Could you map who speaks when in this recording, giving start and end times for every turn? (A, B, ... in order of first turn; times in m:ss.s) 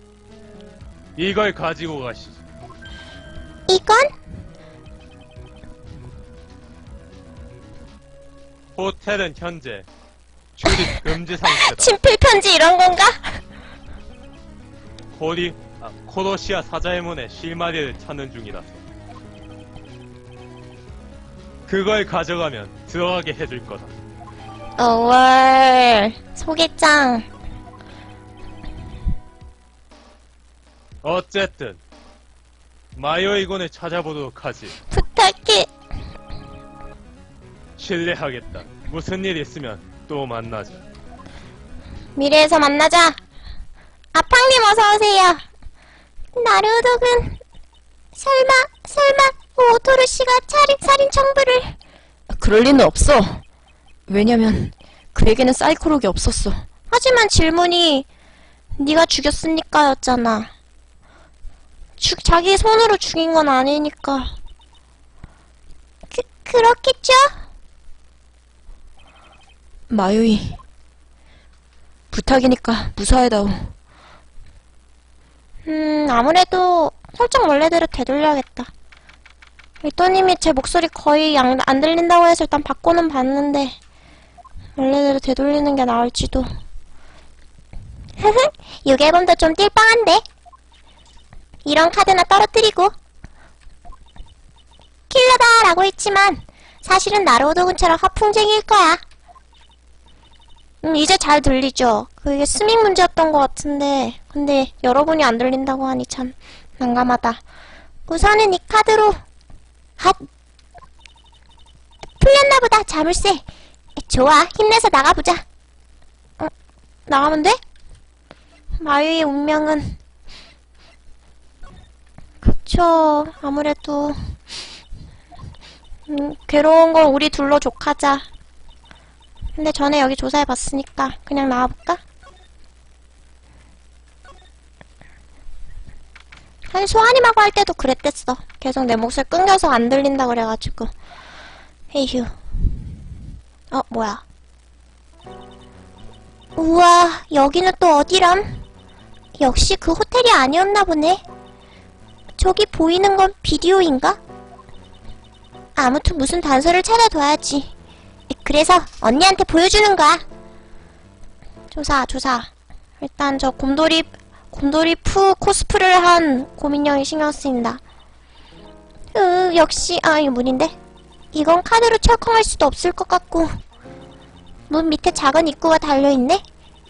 0:01.2-0:02.4 A
0:03.7-0:04.1 B
0:08.8-0:09.9 A
0:10.6-0:11.9 A
0:10.7-0:11.0 B
0:11.5-0:13.4 B
0:15.1-0:18.8 A
0:21.7-0:23.9 A
0:24.8-0:27.3 B
0:31.0-0:31.8 A
0:33.0-0:34.8 A
0:34.9-0:35.7 B
0:37.8-0:40.8 A
0:42.2-0:43.2 B
0:44.1-0:45.4 B
0:46.4-0:47.4 B
0:48.2-0:51.8 B
0:52.4-0:52.9 C
0:54.1-0:56.6 C
0:56.9-0:58.1 B
0:58.8-1:00.5 B
1:02.0-1:04.4 B
1:06.1-1:07.4 B
1:09.9-1:10.5 B
1:12.1-1:13.0 B
1:15.7-1:18.7 B
1:19.8-1:23.8 B
1:24.8-1:26.5 B
1:28.2-1:30.2 B
1:31.6-1:32.9 B
1:35.1-1:39.0 B
1:40.8-1:47.4 B
1:48.1-1:49.2 B
1:52.2-1:53.4 B
1:54.0-1:55.4 B
1:57.1-1:57.6 B
1:58.8-2:00.0 B
2:02.4-2:04.3 B
2:06.1-2:08.3 B
2:09.6-2:12.0 B
2:16.7-2:20.9 B
2:21.9-2:22.4 B
2:23.7-2:24.2 B
2:26.6-2:28.6 B
2:29.4-2:31.2 B
2:32.4-2:34.2 B
2:35.8-2:37.7 B
2:38.3-2:40.2 B
2:41.7-2:42.5 B
2:43.0-2:47.8 B
2:49.1-2:50.8 B
2:51.3-2:53.6 B
2:54.7-2:56.4 B